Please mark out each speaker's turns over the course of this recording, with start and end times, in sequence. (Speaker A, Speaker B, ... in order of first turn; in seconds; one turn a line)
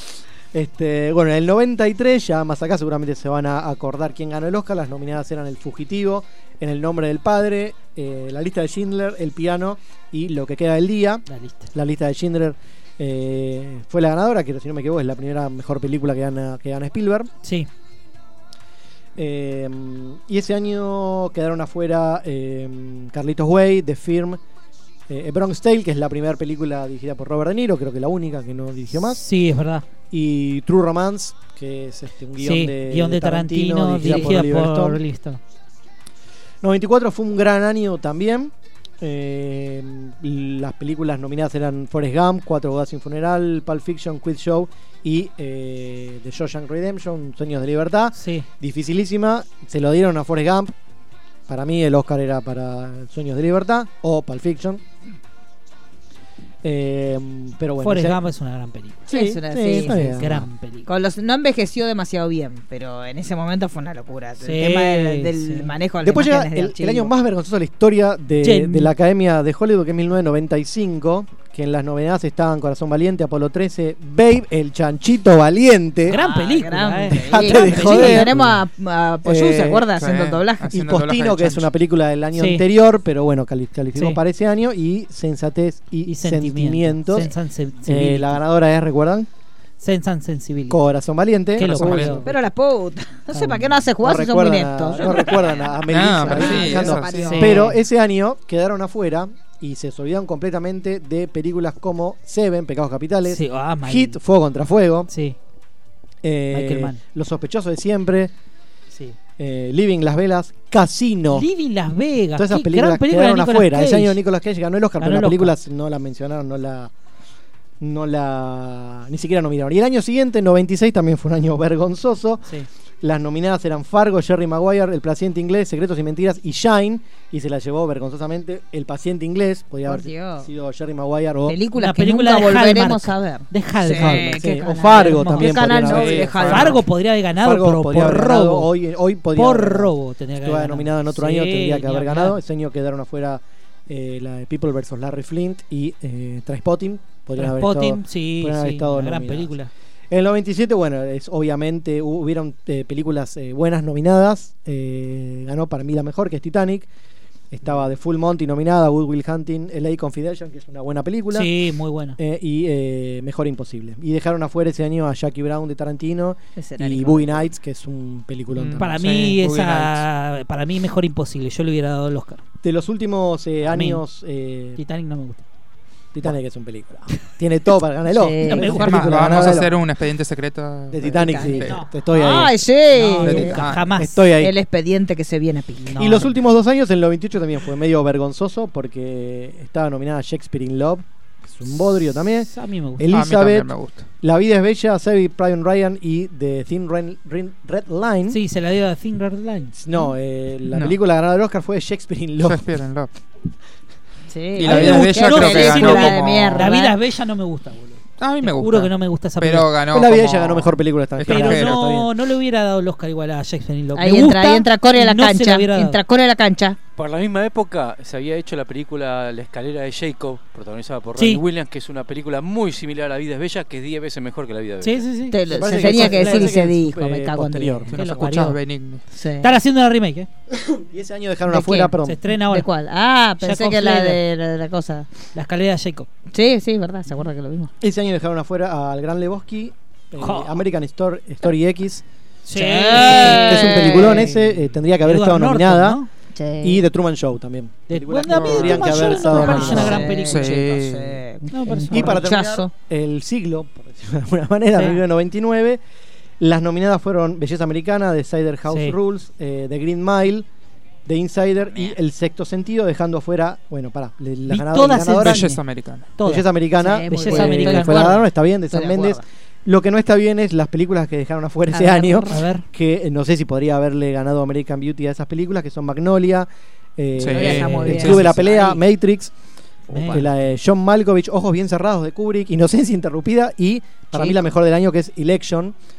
Speaker A: 0.5-17.3
Speaker B: 11.3-11.7
Speaker B: 17.4-17.7
Speaker A: 19.2-24.4
Speaker A: 25.1-29.2
Speaker B: 29.1-29.9
Speaker A: 30.1-35.0
Speaker B: 32.4-35.4
Speaker C: 34.0-34.3
Speaker A: 36.6-50.7
Speaker B: 48.1-48.5
Speaker A: 51.5-54.8
Speaker A: 56.6-58.2
Speaker B: 57.8-59.1
Speaker A: 59.1-60.5
Speaker C: 59.1-60.2
Speaker B: 59.7-60.9
Speaker C: 60.9-67.1
Speaker B: 64.4-65.7
Speaker A: 66.0-76.2
Speaker B: 68.4-68.9
Speaker B: 76.1-78.4
Speaker C: 76.1-80.8
Speaker A: 77.1-78.5
Speaker A: 79.2-79.9
Speaker D: 80.0-81.7
Speaker A: 80.7-87.3
Speaker B: 82.3-82.7
Speaker B: 84.0-84.2
Speaker B: 86.1-88.4
Speaker A: 87.9-89.3
Speaker B: 89.8-90.8
Speaker A: 90.7-92.2
Speaker B: 91.5-92.3
Speaker D: 91.6-92.2
Speaker C: 92.2-97.7
Speaker A: 93.4-105.1
Speaker D: 95.9-97.4
Speaker B: 97.2-97.8
Speaker B: 103.3-104.2
Speaker B: 105.1-105.4
Speaker A: 106.2-108.3
Speaker B: 106.5-107.0
Speaker A: 109.4-111.5
Speaker B: 111.3-114.2
Speaker A: 112.4-116.9
Speaker B: 115.0-115.5
Speaker A: 117.8-122.5
Speaker A: 123.0-131.6
Speaker C: 129.8-130.5
Speaker C: 131.5-136.8
Speaker B: 131.8-138.7
Speaker A: 133.9-136.8
Speaker A: 137.3-149.5
Speaker B: 139.3-142.4
Speaker B: 147.4-149.7
Speaker A: 150.1-156.9
Speaker A: 157.5-161.5
Speaker B: 161.3-162.2
Speaker A: 162.2-169.0
Speaker C: 166.6-167.5
Speaker D: 168.5-170.0
Speaker B: 168.8-172.4
Speaker A: 172.6-174.8
Speaker B: 173.7-174.0
Speaker B: 174.8-175.4
Speaker A: 176.1-179.8
Speaker C: 178.1-179.2
Speaker B: 178.4-179.6
Speaker D: 178.7-181.8
Speaker A: 180.9-182.6
Speaker C: 181.1-183.6
Speaker B: 181.6-182.4
Speaker B: 182.9-184.2
Speaker D: 183.2-184.0
Speaker A: 183.8-184.6
Speaker C: 184.4-186.3
Speaker B: 185.8-186.4
Speaker A: 186.0-198.4
Speaker B: 192.5-193.1
Speaker D: 193.1-194.1
Speaker B: 198.3-199.8
Speaker A: 199.8-202.7
Speaker D: 200.7-201.0
Speaker D: 202.4-203.1
Speaker C: 204.3-207.0
Speaker D: 204.6-206.7
Speaker B: 204.6-209.7
Speaker A: 204.7-205.2
Speaker D: 208.2-211.9
Speaker A: 209.9-212.1
Speaker B: 211.3-216.0
Speaker C: 213.9-216.8
Speaker E: 217.0-225.1
Speaker B: 224.8-226.6
Speaker C: 225.3-227.9
Speaker A: 225.5-228.3
Speaker D: 227.9-229.0
Speaker B: 227.9-228.6
Speaker C: 229.1-229.5
Speaker B: 229.4-230.3
Speaker A: 230.7-232.3
Speaker C: 231.5-235.1
Speaker B: 232.0-232.7
Speaker B: 233.4-234.2
Speaker B: 235.3-236.1
Speaker C: 236.3-237.7
Speaker A: 237.8-242.1
Speaker B: 240.2-240.6
Speaker B: 242.5-246.1
Speaker C: 242.6-244.3
Speaker A: 242.9-246.0
Speaker C: 246.3-246.9
Speaker A: 246.6-250.1
Speaker B: 247.9-250.6
Speaker D: 248.4-248.7
Speaker C: 248.6-252.7
Speaker D: 249.4-251.2
Speaker B: 251.5-252.2
Speaker A: 251.9-255.8
Speaker B: 254.7-255.0
Speaker A: 256.4-260.5
Speaker B: 258.7-259.0
Speaker A: 261.1-265.5
Speaker B: 264.5-265.6
Speaker D: 265.2-266.2
Speaker B: 266.2-266.5
Speaker A: 266.2-279.3
Speaker C: 266.8-269.2
Speaker B: 267.1-268.2
Speaker C: 271.7-272.3
Speaker B: 272.3-272.7
Speaker D: 277.2-278.1
Speaker C: 277.3-278.8
Speaker B: 277.5-278.2
Speaker B: 279.9-280.3
Speaker C: 279.9-280.3
Speaker A: 280.0-285.7
Speaker C: 284.1-284.5